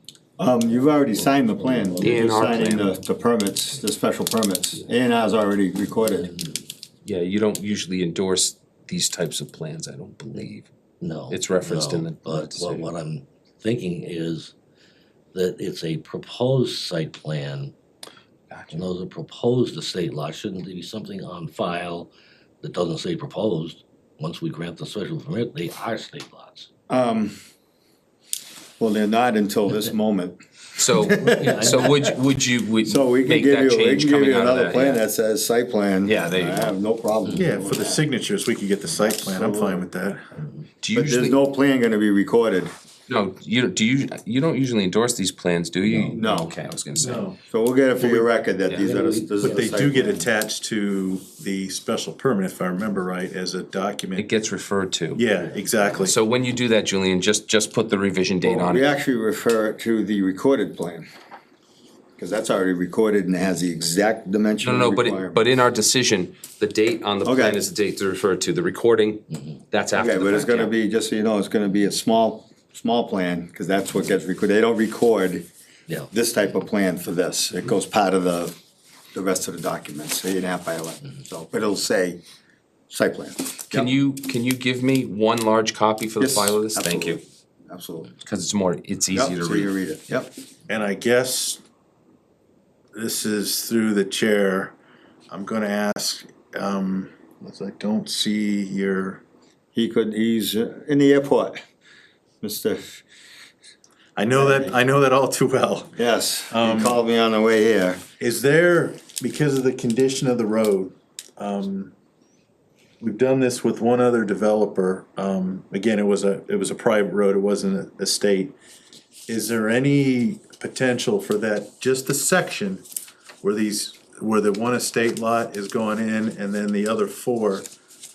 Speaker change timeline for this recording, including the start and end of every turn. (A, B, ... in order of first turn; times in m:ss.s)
0:00.4-0:06.3 A
0:01.1-0:02.7 B
0:02.0-0:03.0 C
0:06.0-0:06.7 B
0:07.0-0:10.7 C
0:11.0-0:14.5 B
0:11.3-0:12.9 C
0:15.3-0:17.7 B
0:18.5-0:18.9 C
0:18.7-0:26.7 B
0:26.9-0:27.4 A
0:28.8-0:32.1 A
0:30.8-0:35.0 C
0:31.4-0:31.7 B
0:32.8-0:38.0 A
0:36.0-0:36.8 C
0:37.3-0:40.2 D
0:39.2-0:39.9 A
0:40.8-0:41.4 C
0:40.9-0:42.7 A
0:43.1-0:47.3 C
0:45.9-0:46.5 A
0:47.0-0:47.4 D
0:47.5-0:50.2 A
0:48.0-0:49.1 C
0:48.9-0:49.7 B
0:49.4-0:54.3 D
0:54.2-0:55.3 C
0:55.1-0:56.2 D
0:56.0-0:58.8 C
0:58.4-1:01.1 A
1:02.2-1:05.4 A
1:04.6-1:10.7 C
1:07.2-1:07.6 A
1:10.0-1:15.5 A
1:16.1-1:18.6 A
1:19.1-1:22.2 A
1:22.9-1:24.0 A
1:23.7-1:27.2 C
1:26.2-1:28.1 A
1:28.2-1:29.7 C
1:29.1-1:30.3 A
1:30.7-1:31.6 D
1:32.9-1:34.8 D
1:35.3-1:39.2 D
1:39.7-1:41.6 A
1:42.4-1:43.0 A
1:44.2-1:46.0 D
1:44.3-1:44.8 A
1:46.0-1:48.0 A
1:46.5-1:47.0 D
1:48.2-1:51.9 D
1:53.0-1:58.5 D
1:59.3-2:02.8 D
2:03.4-2:07.7 D